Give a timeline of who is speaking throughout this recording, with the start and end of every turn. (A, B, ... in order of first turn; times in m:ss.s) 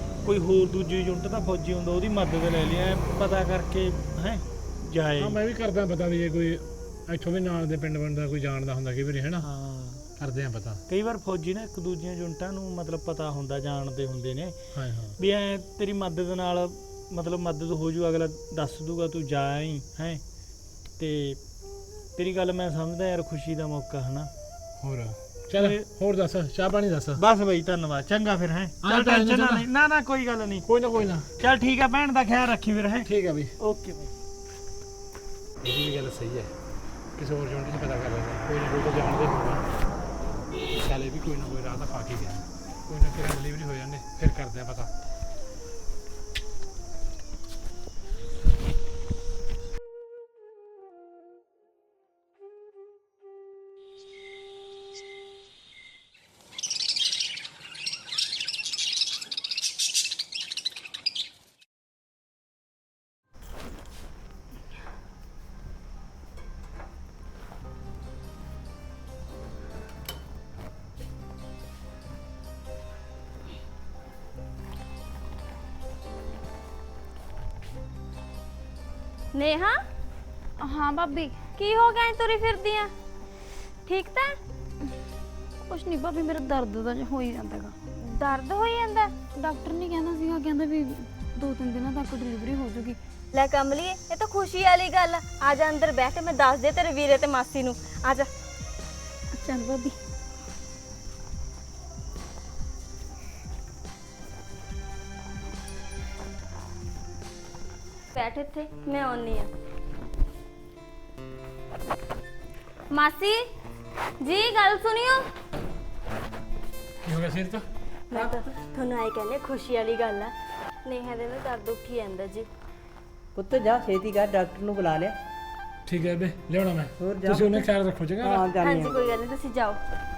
0:00.2-0:05.4 A
0:05.2-0:09.5 B
0:09.4-0:10.1 A
0:10.2-0:10.8 B
0:10.9-0:20.2 A
0:14.7-0:15.2 B
0:21.0-0:21.4 A
0:22.2-0:24.3 A
0:24.8-0:27.2 B
0:25.6-0:25.9 A
0:27.2-0:30.7 A
0:28.8-0:29.6 B
0:30.6-0:31.3 B
0:31.4-0:33.1 A
0:33.0-0:33.5 B
0:33.6-0:34.1 A
0:35.6-0:36.5 B
0:37.2-0:39.6 B
0:40.7-0:44.9 B
1:19.3-1:19.8 C
1:20.6-1:21.4 D
1:21.6-1:22.9 C
1:23.9-1:24.4 C
1:25.6-1:27.8 D
1:28.0-1:29.1 C
1:29.4-1:33.0 D
1:33.3-1:38.3 C
1:39.3-1:40.0 D
1:48.2-1:49.5 C
1:52.9-1:53.4 C
1:54.2-1:55.3 C
1:57.0-1:57.6 B
1:58.1-2:00.3 C
1:58.1-1:58.4 E
2:00.8-2:02.5 C
2:03.4-2:05.2 E
2:05.9-2:08.5 B
2:07.0-2:07.7 E
2:08.2-2:09.0 E
2:08.6-2:09.8 C